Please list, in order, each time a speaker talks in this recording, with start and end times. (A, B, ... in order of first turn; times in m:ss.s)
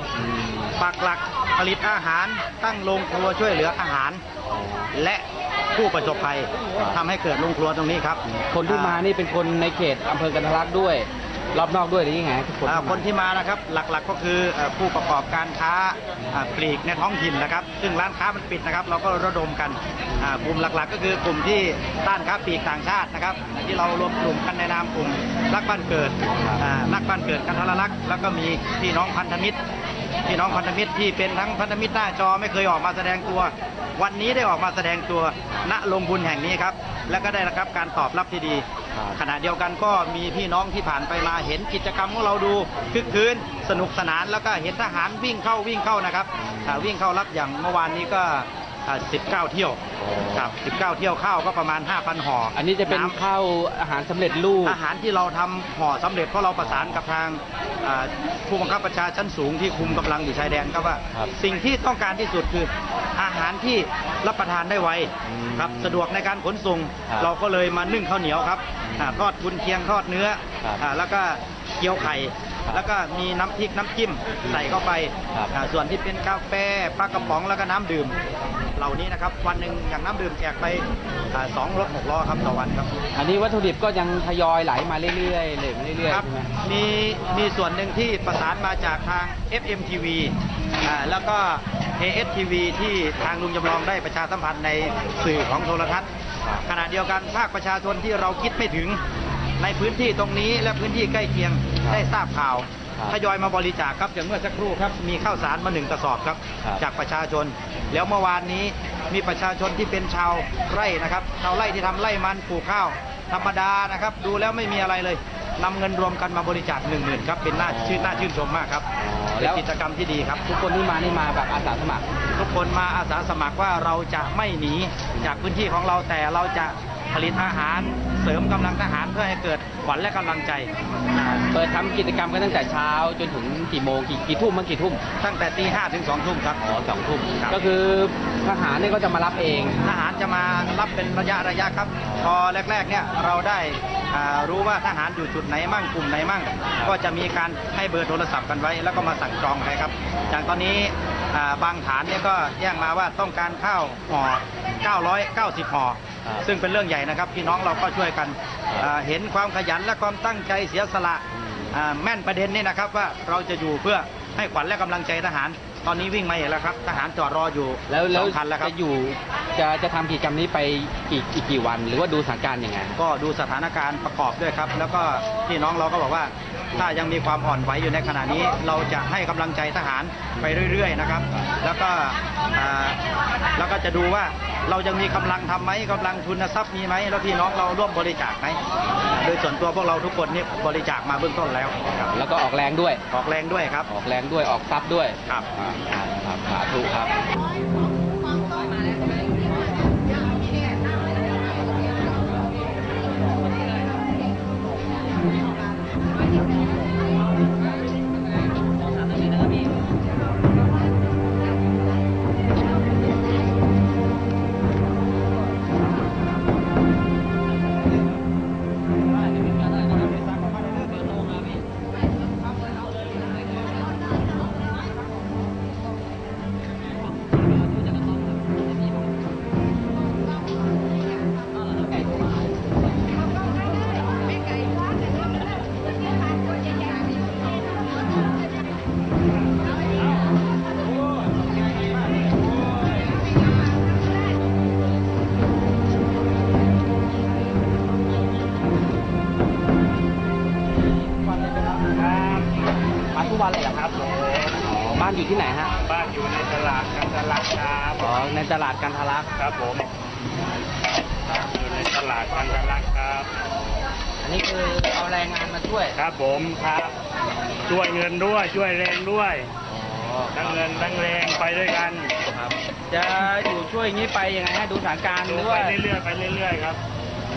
0:00.1-0:00.7 A
0:00.8-0:04.2 B
0:04.5-0:04.9 A
0:04.9-0:09.0 B
0:08.2-0:13.0 A
0:12.6-0:29.6 B
0:20.1-0:20.5 A
0:26.3-0:26.6 A
0:30.2-0:49.8 B
0:38.9-0:39.2 A
0:46.4-0:46.9 A
0:50.0-0:50.5 A
0:50.3-0:53.2 B
0:52.5-0:54.8 A
0:54.6-1:18.2 B
0:56.6-0:57.0 A
1:05.2-1:06.0 A
1:08.8-1:09.2 A
1:14.4-1:14.8 A
1:18.8-1:22.9 B
1:23.1-1:26.5 A
1:26.1-1:36.1 B
1:36.6-1:39.0 B
1:39.6-1:58.9 B
1:41.8-1:42.0 A
1:57.6-1:58.3 A
1:59.0-1:59.6 A
1:59.4-2:00.4 B
2:00.4-2:02.1 A
2:02.3-2:11.4 B
2:05.1-2:05.5 A
2:11.3-2:15.0 A
2:15.2-2:16.6 B
2:16.6-2:19.8 A
2:19.8-2:48.7 B
2:22.0-2:22.3 A
2:30.2-2:30.5 A
2:41.3-2:41.7 A
2:47.9-2:53.0 A
2:53.0-3:03.0 B
3:03.5-3:08.6 B
3:09.2-3:12.1 B
3:12.1-3:13.0 A
3:13.1-3:13.9 B
3:13.8-3:17.1 A
3:40.0-3:41.1 B
4:11.4-4:11.8 A
4:11.9-4:12.5 C
4:13.1-4:13.8 A
4:13.6-4:14.6 C
4:14.6-4:15.7 A
4:15.8-4:18.0 C
4:18.0-4:19.3 A
4:19.4-4:19.9 C
4:21.3-4:23.3 C
4:23.5-4:26.0 A
4:26.0-4:27.0 C
4:27.6-4:29.5 C
4:29.7-4:30.9 A
4:30.3-4:32.1 C
4:32.2-4:35.8 A
4:35.2-4:36.8 C